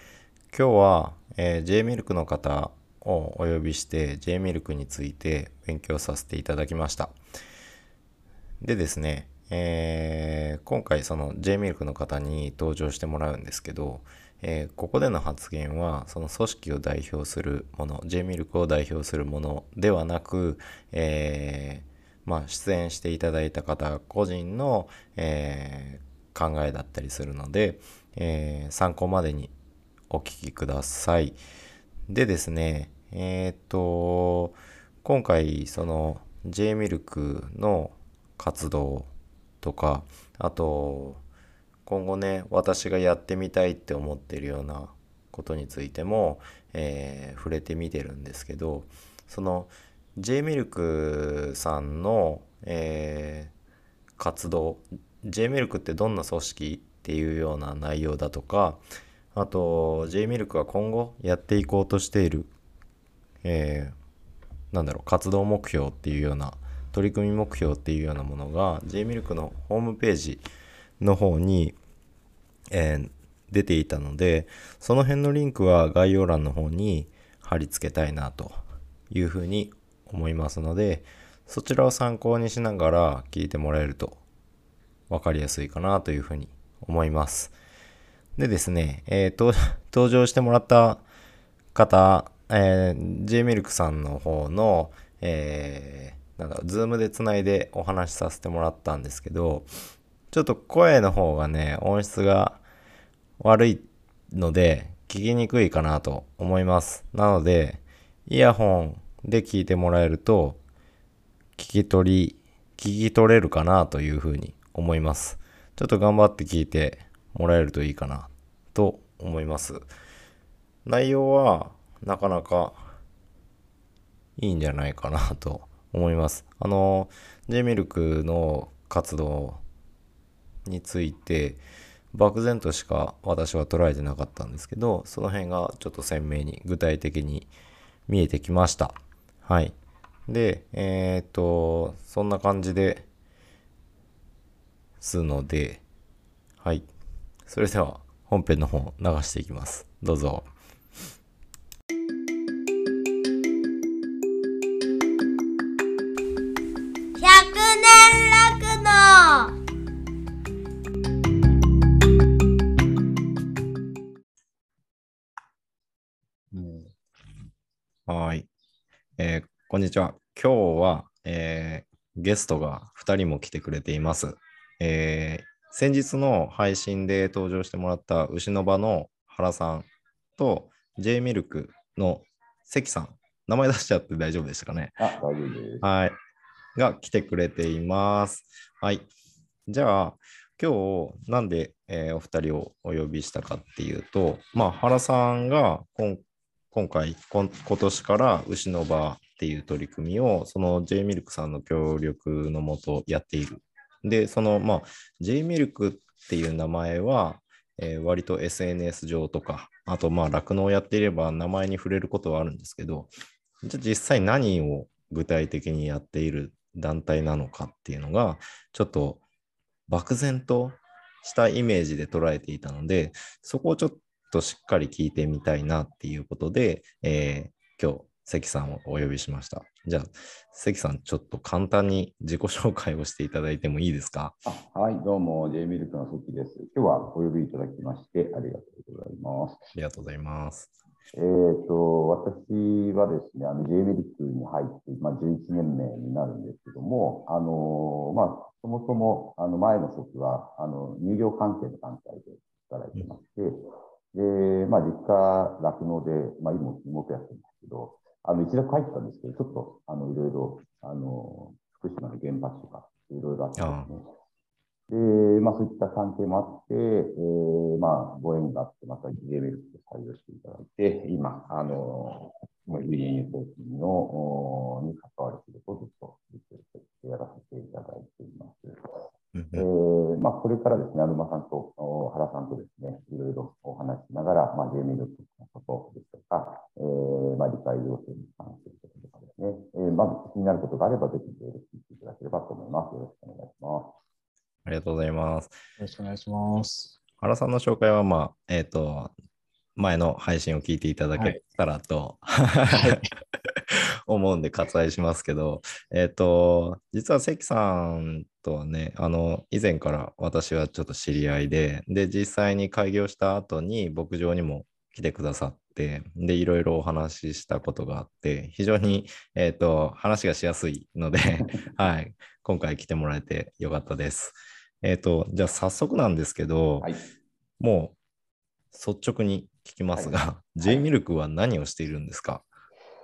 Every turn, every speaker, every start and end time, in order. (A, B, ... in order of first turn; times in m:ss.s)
0:00.5-0:07.2 A
0:08.6-0:29.5 A
0:30.1-0:31.4 A
0:32.1-0:39.1 A
0:39.6-0:41.2 A
0:41.9-0:53.5 A
0:54.2-0:58.8 A
0:59.3-1:02.5 A
1:03.4-1:04.0 A
1:04.7-1:10.4 A
1:11.0-1:11.8 A
1:12.7-1:18.6 A
1:19.1-1:24.2 A
1:25.1-1:27.6 A
1:28.4-1:31.0 A
1:31.7-1:39.7 A
1:40.3-1:42.6 A
1:43.4-1:50.6 A
1:51.6-1:59.9 A
2:00.8-2:02.9 A
2:04.4-2:09.6 A
2:10.6-2:11.6 A
2:12.1-2:17.5 A
2:18.1-2:19.7 A
2:20.3-2:23.0 A
2:25.0-2:25.8 A
2:26.6-2:26.9 A
2:27.5-2:30.5 A
2:37.2-2:39.5 B
2:46.5-2:46.9 C
2:48.1-2:48.5 A
2:49.2-3:05.0 A
3:05.0-3:05.8 D
3:05.8-3:06.2 A
3:06.8-3:09.1 A
3:09.7-3:33.1 A
3:33.6-3:39.2 A
3:39.9-3:54.4 A
3:54.4-3:59.7 D
3:59.7-4:00.7 A
4:01.1-4:24.1 D
4:23.6-4:23.9 A
4:24.9-4:38.9 D
4:39.3-4:39.7 A
4:39.5-4:54.0 D
4:54.6-4:55.6 A
4:55.8-4:57.0 C
4:57.2-4:59.1 A
4:59.8-5:26.9 A
5:02.7-5:03.1 C
5:27.6-5:28.0 A
5:28.7-5:32.5 A
5:29.9-5:30.8 D